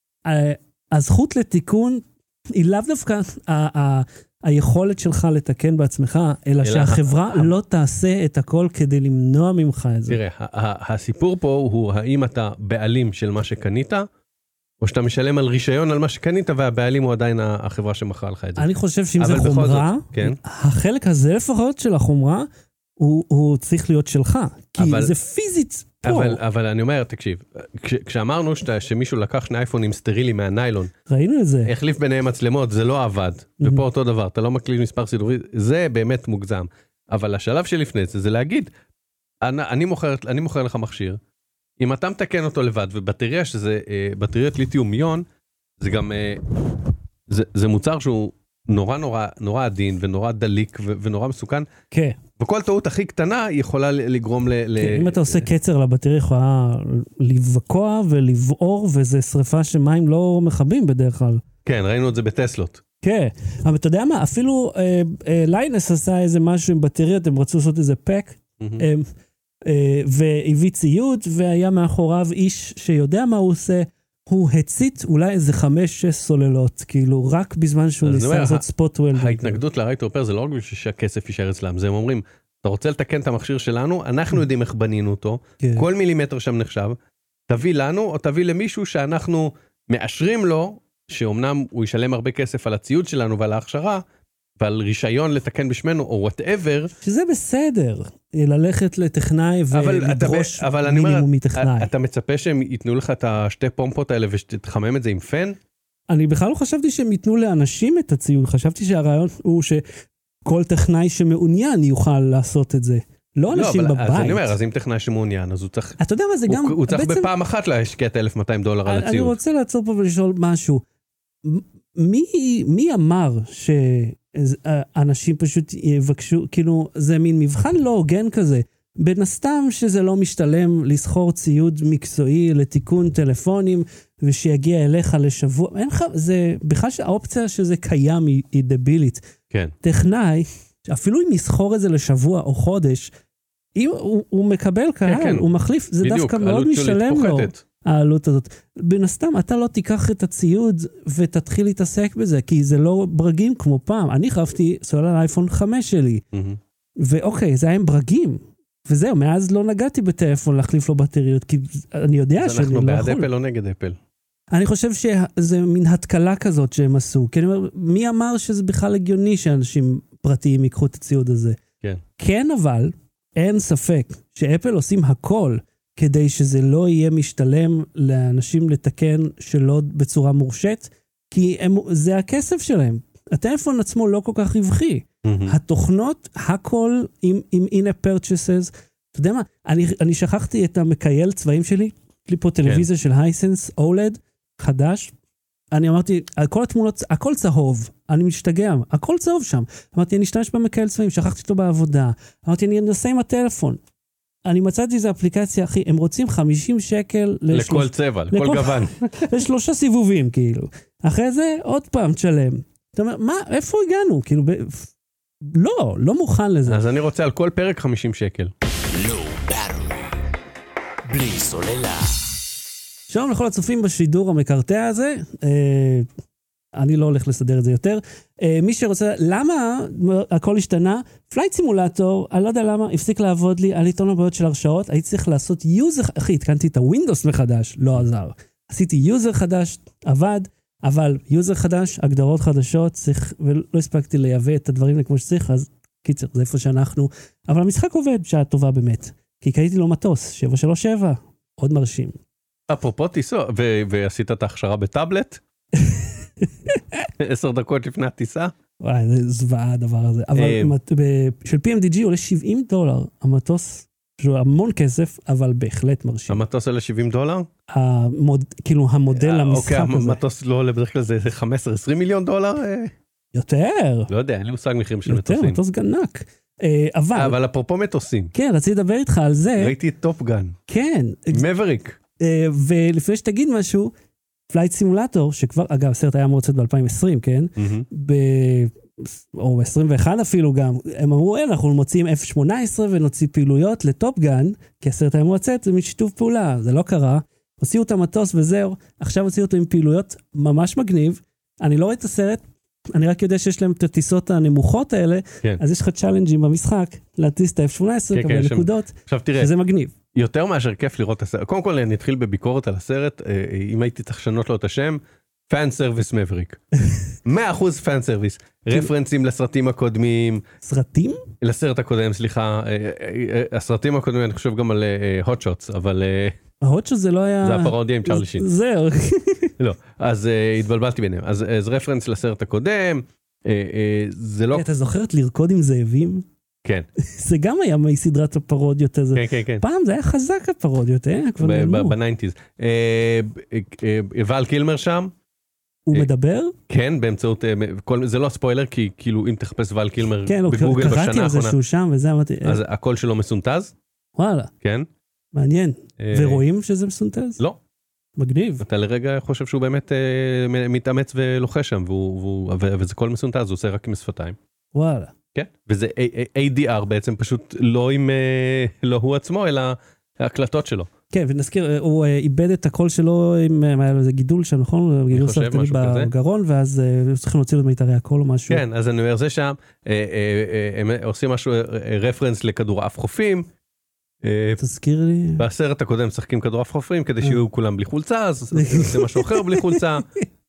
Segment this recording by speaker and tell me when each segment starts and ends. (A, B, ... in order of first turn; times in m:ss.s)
0:00.2-0:10.2 A
0:06.6-0:07.5 B
0:10.1-0:14.1 B
0:14.8-0:20.4 B
0:18.6-0:22.5 A
0:23.0-0:26.4 A
0:24.8-0:25.1 B
0:26.0-0:30.9 B
0:31.1-0:31.7 A
0:31.7-0:38.7 B
0:39.4-0:41.2 B
0:41.8-0:45.3 B
0:45.8-0:51.7 B
0:51.9-0:52.2 A
0:52.4-0:55.5 B
0:54.8-1:01.4 A
1:01.6-1:02.8 B
1:03.0-1:09.1 A
1:09.6-1:19.6 A
1:18.0-1:27.0 B
1:25.6-1:25.9 A
1:27.5-1:34.0 B
1:34.6-1:36.9 B
1:37.0-1:41.9 A
1:39.7-1:45.6 B
1:46.1-1:49.8 A
1:50.4-1:54.6 A
1:53.5-1:59.4 B
1:56.0-1:57.3 A
1:58.8-2:00.8 A
2:01.4-2:19.2 A
2:19.8-2:23.1 A
2:23.8-2:36.2 A
2:25.0-2:25.5 B
2:26.0-2:27.6 B
2:36.3-2:36.6 B
2:37.0-2:43.3 A
2:42.4-2:44.0 B
2:44.5-2:51.6 A
2:52.2-3:15.1 A
3:05.2-3:05.6 B
3:15.7-3:23.8 A
3:24.4-3:34.9 A
3:27.5-3:29.3 B
3:35.4-3:36.8 A
3:36.7-3:38.5 B
3:38.9-3:40.2 C
3:41.1-3:42.3 C
3:43.1-3:46.1 A
3:46.8-4:12.2 A
4:12.7-4:15.4 B
4:15.8-4:17.1 A
4:17.2-4:18.5 B
4:18.8-4:26.4 A
4:20.4-4:20.8 B
4:26.3-4:27.5 B
4:27.7-4:30.2 A
4:29.2-4:32.9 B
4:33.3-4:34.1 A
4:34.1-4:35.6 B
4:35.1-4:37.4 A
4:37.2-4:38.3 B
4:38.3-4:39.8 A
4:39.6-4:40.6 B
4:40.7-4:41.4 A
4:41.3-4:42.0 B
4:42.2-4:43.9 A
4:44.5-5:09.9 A
4:47.6-4:47.9 B
5:08.1-5:09.5 B
5:10.1-5:16.6 B
5:17.2-5:20.4 B
5:20.6-5:21.2 A
5:21.4-5:26.4 B
5:26.6-5:29.5 A
5:27.4-5:28.5 B
5:29.6-5:34.7 B
5:34.5-5:36.3 A
5:37.0-5:42.0 A
5:39.2-5:39.6 B
5:41.4-5:45.1 B
5:45.9-5:46.6 A
5:46.7-5:51.6 B
5:50.3-5:52.6 A
5:52.4-5:53.7 B
5:54.2-5:54.5 A
5:54.6-5:54.9 B
5:55.3-5:57.4 A
5:56.0-5:56.4 B
5:58.2-5:58.6 A
5:58.6-6:04.4 B
6:04.7-6:05.1 A
6:05.3-6:10.9 B
6:11.1-6:18.6 A
6:15.1-6:16.1 B
6:18.5-6:23.5 B
6:24.2-6:24.6 B
6:24.6-6:25.5 A
6:25.4-6:30.1 B
6:28.5-6:30.2 A